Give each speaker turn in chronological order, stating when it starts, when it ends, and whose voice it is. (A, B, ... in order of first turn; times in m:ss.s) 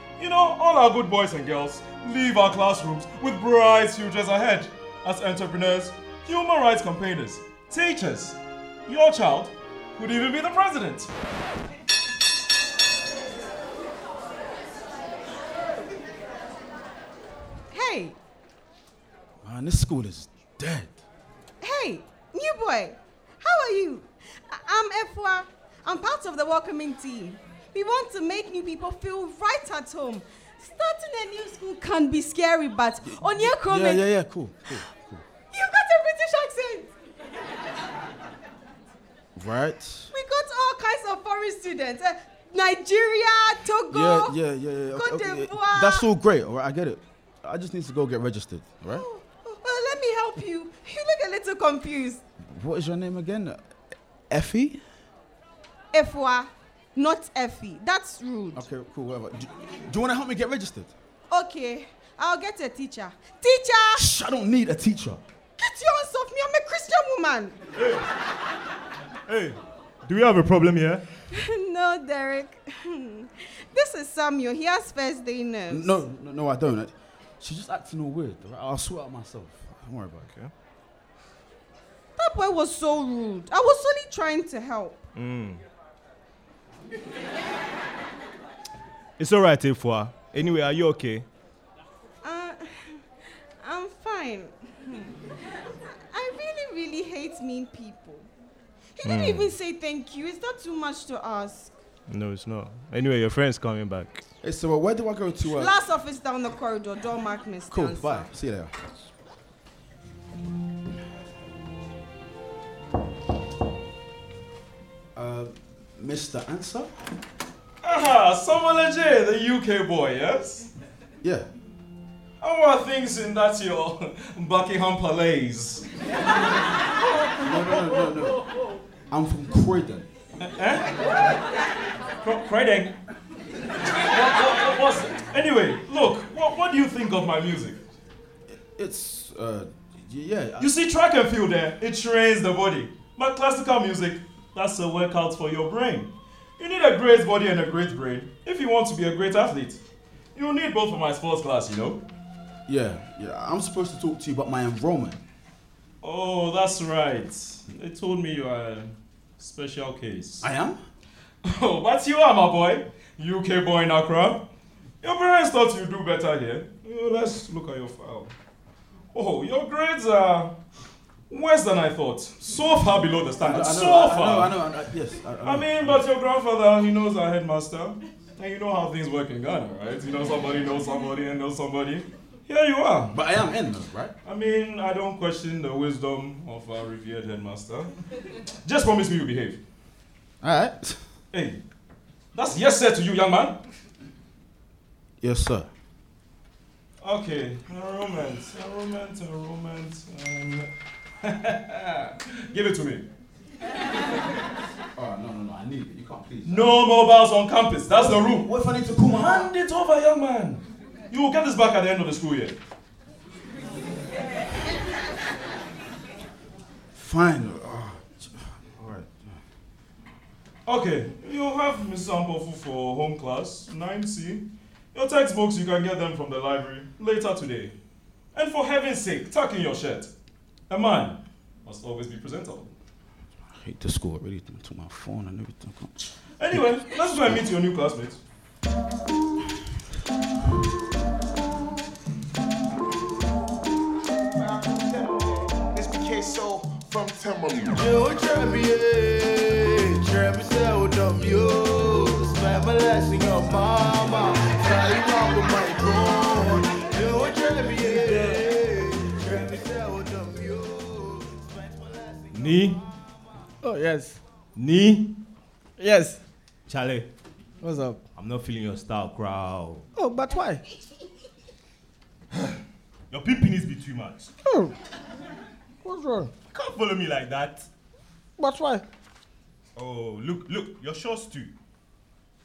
0:00.2-0:11.1 A
0:17.7-0:18.2 B
0:19.4-0:21.0 C
0:21.6-0:34.1 B
0:33.0-0:35.2 C
0:35.5-0:36.9 B
0:39.4-0:40.1 C
0:40.1-0:44.4 B
0:43.9-0:49.1 C
0:44.9-0:46.1 B
0:48.9-0:52.2 B
0:52.4-0:53.6 C
0:54.3-0:54.8 C
0:55.9-0:58.6 B
0:58.5-1:00.9 C
1:01.3-1:04.1 B
1:04.0-1:05.2 C
1:05.6-1:07.6 B
1:07.8-1:08.1 D
1:09.3-1:11.1 D
1:11.3-1:16.0 B
1:15.7-1:20.3 C
1:22.2-1:25.0 B
1:25.2-1:25.6 D
1:29.2-1:31.3 D
1:32.2-1:33.0 B
1:33.6-1:35.2 B
1:36.1-1:38.3 B
1:39.0-1:41.7 B
1:39.0-1:39.5 D
1:42.1-1:44.2 D
1:44.4-1:45.8 C
1:45.5-1:48.3 B
1:47.7-1:48.7 C
1:55.2-1:57.0 C
1:57.8-2:00.7 A
2:01.2-2:01.5 C
2:02.4-2:05.9 A
2:07.4-2:08.4 C
2:09.1-2:10.1 C
2:10.4-2:10.8 A
2:12.2-2:13.0 A
2:14.1-2:17.8 A
2:18.5-2:20.7 C
2:20.6-2:29.8 A
2:30.4-2:32.0 A
2:32.7-2:35.2 C
2:36.0-2:40.5 A
2:40.4-2:40.8 C
2:41.4-2:44.4 A
2:45.0-2:48.3 A
2:49.1-2:50.5 A
2:51.3-2:54.5 A
2:53.4-2:56.0 C
2:55.4-3:03.1 A
3:03.1-3:04.2 C
3:04.2-3:07.9 A
3:08.6-3:09.6 A
3:10.4-3:11.0 C
3:11.3-3:11.6 A
3:12.4-3:13.6 A
3:15.2-3:15.7 C
3:17.0-3:20.7 A
3:21.2-3:23.0 A
3:25.0-3:26.7 C
3:26.5-3:28.5 A
3:27.9-3:29.5 C
3:29.3-3:32.6 A
3:36.9-3:39.4 C
3:40.7-3:47.8 A
3:48.4-3:50.1 A
3:50.7-3:52.7 A
3:53.5-3:56.1 C
3:56.4-3:58.2 A
4:04.5-4:22.3 E
4:18.0-4:18.4 F
4:22.3-4:22.8 D
4:23.6-4:24.2 F
4:24.6-4:25.2 D
4:25.8-4:26.2 F
4:26.7-4:27.1 D
4:27.6-4:28.0 F
4:28.2-4:29.9 D
4:30.0-4:30.6 F
4:33.1-4:34.3 D
4:34.4-4:34.8 F
4:35.8-4:36.3 F
4:36.5-4:37.7 D
4:38.4-4:38.8 F
4:39.8-4:41.5 D